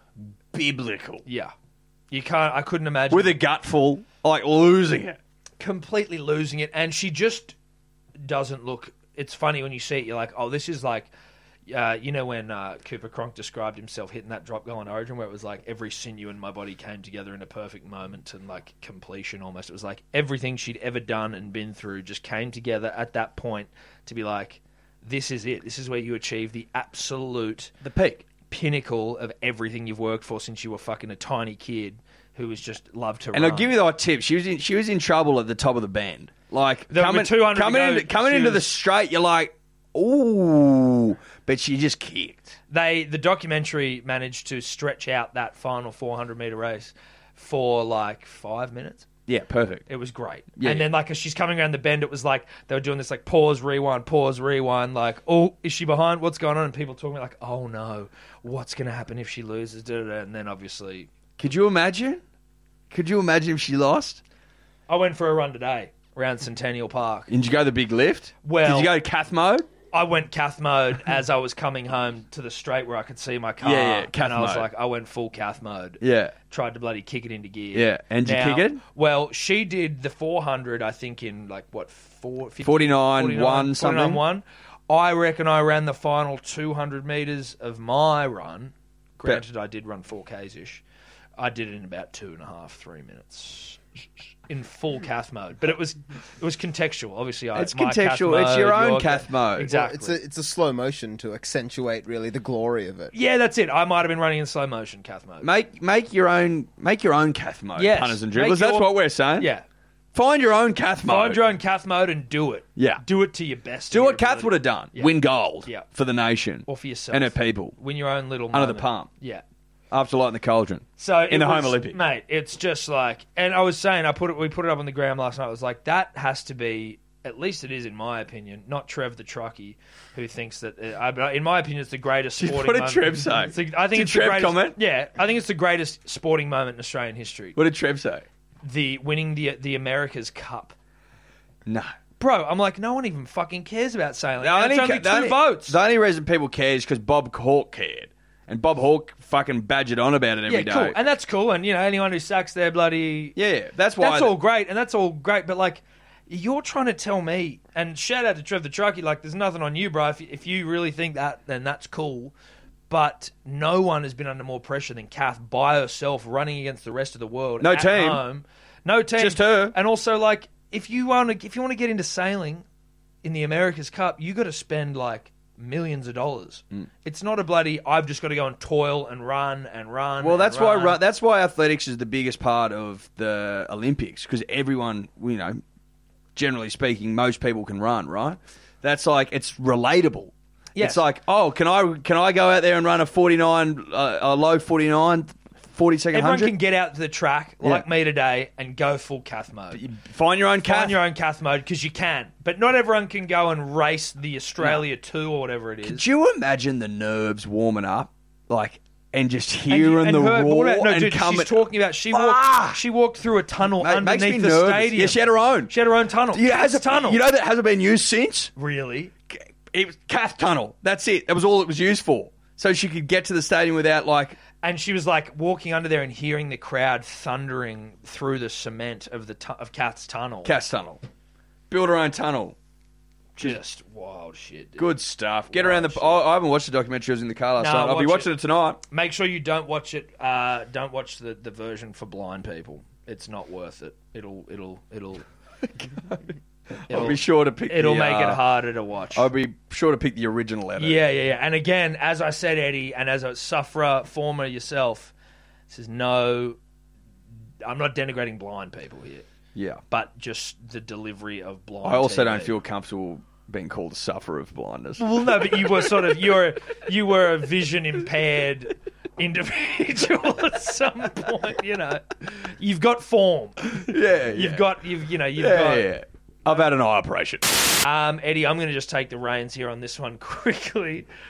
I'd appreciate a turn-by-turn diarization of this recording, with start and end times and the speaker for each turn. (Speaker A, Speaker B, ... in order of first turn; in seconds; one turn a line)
Speaker A: 0.5-1.2
Speaker B: 1.2-1.5
Speaker B: 2.1-3.4
Speaker A: 3.1-5.2
Speaker B: 5.6-7.5
Speaker B: 8.2-11.1
Speaker B: 11.7-27.7
Speaker A: 27.8-28.3
Speaker B: 28.5-33.7
Speaker A: 33.3-42.6
Speaker B: 36.9-38.7
Speaker B: 42.7-49.1
Speaker A: 49.3-49.9
Speaker B: 49.9-61.1
Speaker A: 50.6-50.9
Speaker A: 61.4-62.2
Speaker A: 62.9-64.2
Speaker B: 64.9-67.3
Speaker A: 67.3-69.7
Speaker B: 68.4-68.9
Speaker B: 69.9-90.8
Speaker A: 73.6-74.7
Speaker A: 76.0-76.3
Speaker A: 77.7-78.8
Speaker A: 82.6-84.2
Speaker B: 91.4-93.8
Speaker B: 94.5-100.2
Speaker A: 97.5-99.7
Speaker C: 99.7-103.1
Speaker B: 103.1-105.5
Speaker A: 105.4-109.5
Speaker B: 107.8-109.7
Speaker A: 110.1-111.4
Speaker B: 111.1-115.9
Speaker A: 112.8-113.0
Speaker A: 113.9-117.8
Speaker B: 116.7-119.4
Speaker A: 118.5-119.1
Speaker A: 119.9-122.0
Speaker B: 121.0-137.6
Speaker A: 132.4-134.8
Speaker A: 137.6-138.2
Speaker B: 138.6-140.8
Speaker A: 141.7-141.9
Speaker B: 142.2-145.8
Speaker A: 144.4-151.0
Speaker B: 150.5-153.4
Speaker A: 153.4-154.4
Speaker B: 154.0-162.3
Speaker B: 162.9-172.7
Speaker A: 167.6-168.2
Speaker A: 169.2-169.8
Speaker B: 173.2-181.0
Speaker A: 180.2-185.6
Speaker A: 186.3-196.5
Speaker B: 190.8-191.0
Speaker B: 196.1-199.8
Speaker A: 199.7-201.0
Speaker B: 200.6-206.1
Speaker A: 205.8-212.8
Speaker B: 209.7-217.2
Speaker A: 213.8-215.7
Speaker A: 216.3-218.5
Speaker B: 218.6-219.1
Speaker A: 219.3-224.4
Speaker B: 224.6-230.5
Speaker A: 230.4-231.0
Speaker A: 231.7-232.6
Speaker B: 233.4-234.9
Speaker A: 234.8-238.8
Speaker B: 235.5-236.2
Speaker B: 237.6-238.3
Speaker B: 238.9-245.2
Speaker A: 246.8-248.4
Speaker B: 246.9-249.3
Speaker A: 249.2-251.0
Speaker B: 250.8-255.1
Speaker B: 255.7-256.6
Speaker B: 257.6-259.3
Speaker A: 259.6-259.8
Speaker B: 259.9-262.6
Speaker A: 261.8-266.1
Speaker B: 265.0-273.8
Speaker A: 273.6-274.8
Speaker B: 274.3-275.9
Speaker A: 275.4-277.8
Speaker B: 277.8-281.1